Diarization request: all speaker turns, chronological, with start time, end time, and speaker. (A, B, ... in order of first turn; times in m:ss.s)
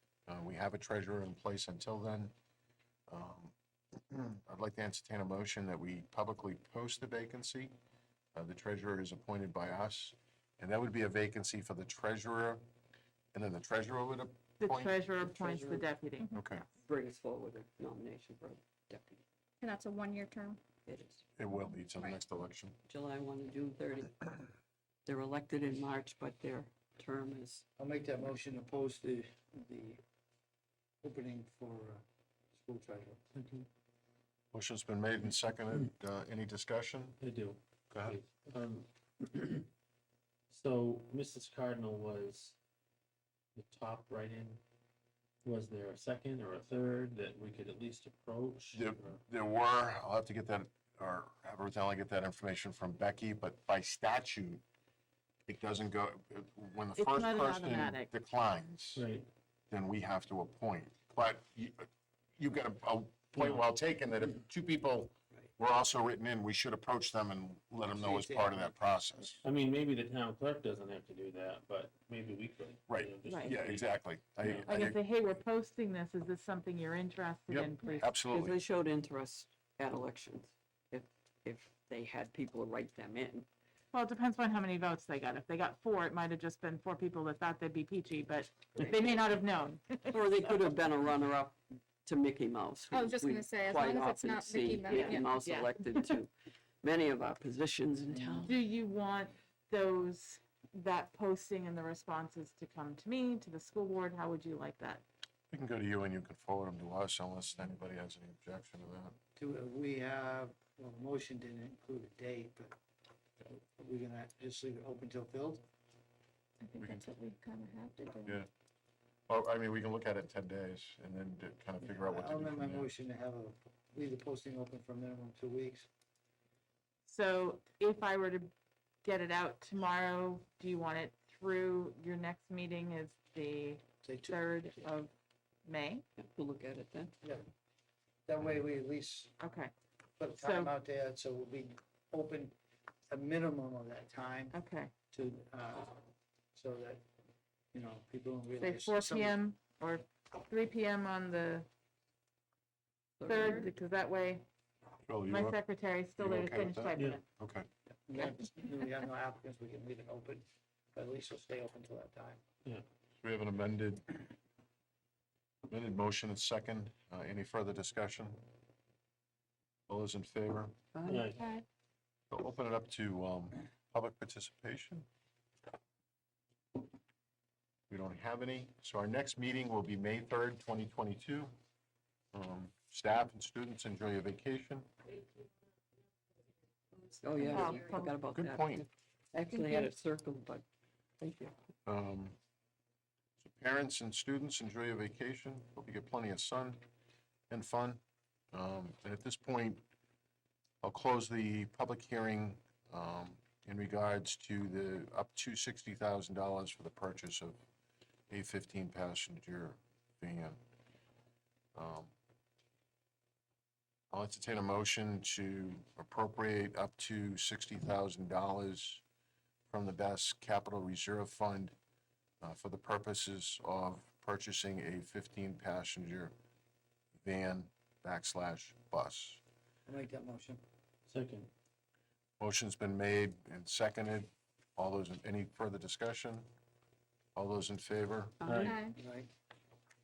0:00.3-0:02.3 A
0:03.1-0:07.7 A
0:08.3-0:12.6 A
0:13.3-0:15.0 A
0:14.6-0:16.6 B
0:15.2-0:15.9 C
0:16.3-0:16.6 A
0:16.8-0:19.2 C
0:19.6-0:20.6 D
0:20.8-0:21.2 C
0:21.4-0:22.8 A
0:22.8-0:24.4 C
0:25.0-0:27.6 C
0:27.8-0:30.0 E
0:31.0-0:32.0 E
0:32.5-0:33.2 E
0:33.4-0:33.6 F
0:34.5-0:37.2 A
0:37.2-0:39.7 F
0:37.9-0:38.2 A
0:40.5-0:42.6 F
0:43.5-0:44.6 F
0:45.4-0:49.2 F
0:48.7-0:54.6 A
0:55.5-0:59.0 A
0:57.0-0:58.1 B
0:59.0-0:59.3 F
0:59.7-1:09.4 A
1:07.9-1:08.6 E
1:09.4-1:14.8 F
1:12.9-1:15.0 A
1:13.2-1:13.5 B
1:14.7-1:18.1 B
1:17.5-1:18.6 A
1:18.3-1:23.4 C
1:23.9-1:30.3 B
1:30.1-1:36.3 C
1:32.9-1:35.3 D
1:34.9-1:36.1 B
1:36.8-1:38.6 C
1:38.4-1:45.0 B
1:45.5-1:49.2 A
1:49.4-1:52.8 E
1:53.5-1:55.6 E
1:56.6-1:58.4 D
1:56.8-1:57.1 A
1:58.2-1:58.5 A
1:59.3-2:02.9 A
2:01.8-2:05.9 E
2:07.0-2:08.5 B
2:09.0-2:15.1 B
2:14.0-2:14.4 E
2:15.6-2:16.0 B
2:16.2-2:17.1 C
2:18.3-2:19.4 E
2:19.4-2:19.7 B
2:20.2-2:22.5 E
2:20.4-2:20.7 B
2:23.1-2:24.6 E
2:24.5-2:24.9 B
2:25.1-2:27.0 E
2:27.7-2:29.4 E
2:28.6-2:31.7 B
2:33.2-2:33.7 C
2:33.2-2:34.4 B
2:35.0-2:35.6 A
2:35.3-2:37.2 B
2:36.2-2:37.7 A
2:38.0-2:42.4 E
2:43.2-2:44.3 A
2:45.7-2:48.4 A
2:49.9-2:50.7 A
2:50.9-2:51.3 C
2:51.0-2:51.4 F
2:51.4-2:51.6 D
2:52.3-2:55.1 A
2:57.9-3:01.5 A
3:02.3-3:04.9 A
3:07.1-3:10.6 C
3:07.4-3:08.1 B
3:08.3-3:08.8 A
3:09.5-3:09.9 B
3:11.2-3:11.5 C
3:11.8-3:12.4 A
3:13.4-3:16.8 A
3:17.5-3:18.0 A
3:18.5-3:19.8 A
3:20.8-3:27.6 A
3:28.3-3:30.6 A
3:31.7-3:32.1 A
3:34.1-3:39.0 A
3:39.7-3:41.7 A
3:42.4-3:46.3 A
3:47.2-3:49.4 A
3:49.8-3:50.6 E
3:51.1-3:51.5 F
3:52.4-3:56.5 A
3:57.3-3:58.4 A
3:58.4-3:58.7 C
3:58.4-3:58.7 F
3:58.7-3:59.0 D
3:58.8-3:59.3 E